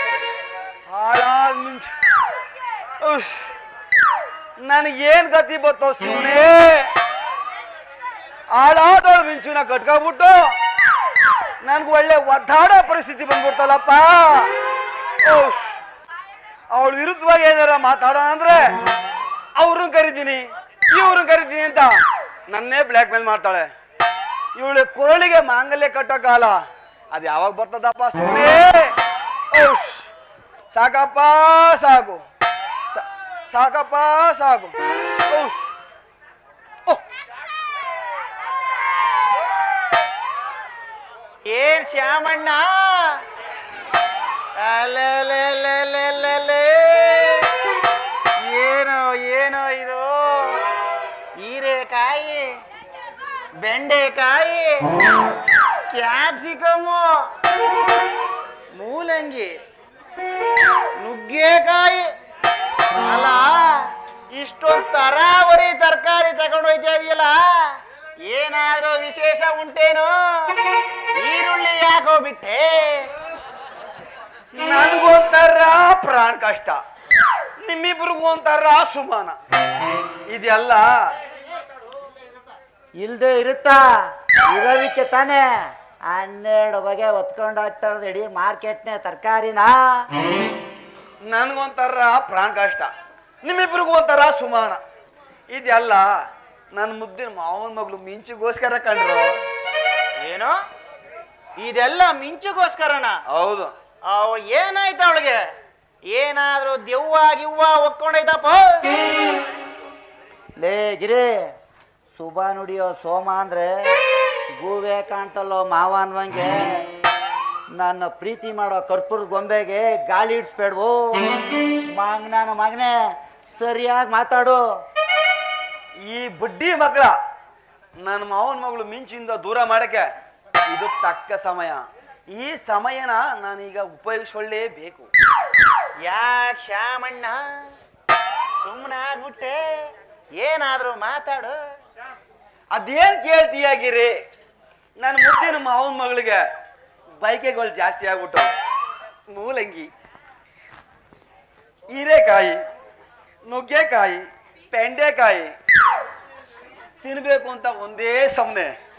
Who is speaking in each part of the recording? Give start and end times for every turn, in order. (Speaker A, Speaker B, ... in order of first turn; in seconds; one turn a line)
Speaker A: 0.9-1.9
Speaker A: 3.0-3.5
Speaker A: 4.6-6.9
Speaker A: 8.5-10.5
Speaker A: 11.6-14.5
Speaker A: 15.2-15.7
Speaker A: 16.7-18.6
Speaker A: 19.6-23.7
Speaker A: 24.6-26.6
Speaker A: 27.1-28.9
Speaker A: 29.5-30.0
Speaker A: 30.7-32.2
Speaker A: 32.9-34.7
Speaker A: 35.3-35.6
Speaker B: 41.5-43.1
Speaker B: 44.6-47.5
Speaker B: 48.4-50.6
Speaker B: 51.4-52.4
Speaker B: 53.6-54.9
Speaker B: 55.9-57.0
Speaker B: 58.8-59.5
Speaker B: 61.0-62.0
Speaker B: 63.0-63.7
Speaker B: 64.3-67.4
Speaker B: 68.3-70.5
Speaker B: 71.2-73.0
Speaker A: 74.5-76.8
Speaker A: 77.6-79.4
Speaker A: 80.3-81.0
Speaker C: 83.0-83.9
Speaker C: 84.5-90.0
Speaker A: 91.2-92.9
Speaker A: 93.4-94.8
Speaker A: 95.5-96.1
Speaker A: 96.7-99.4
Speaker B: 100.2-100.5
Speaker B: 101.6-103.1
Speaker A: 103.3-103.7
Speaker B: 104.1-105.4
Speaker B: 106.1-108.8
Speaker C: 110.6-111.4
Speaker C: 112.1-113.7
Speaker C: 114.6-116.8
Speaker C: 117.8-121.3
Speaker C: 121.9-122.9
Speaker C: 123.5-124.6
Speaker A: 126.1-127.1
Speaker A: 128.0-130.1
Speaker A: 130.7-135.1
Speaker B: 136.1-137.4
Speaker B: 138.6-139.6
Speaker B: 140.4-141.6
Speaker A: 142.7-144.2
Speaker A: 145.0-146.4
Speaker A: 147.2-148.5
Speaker A: 149.3-149.9
Speaker A: 151.9-152.6
Speaker A: 153.4-155.5
Speaker A: 157.0-158.7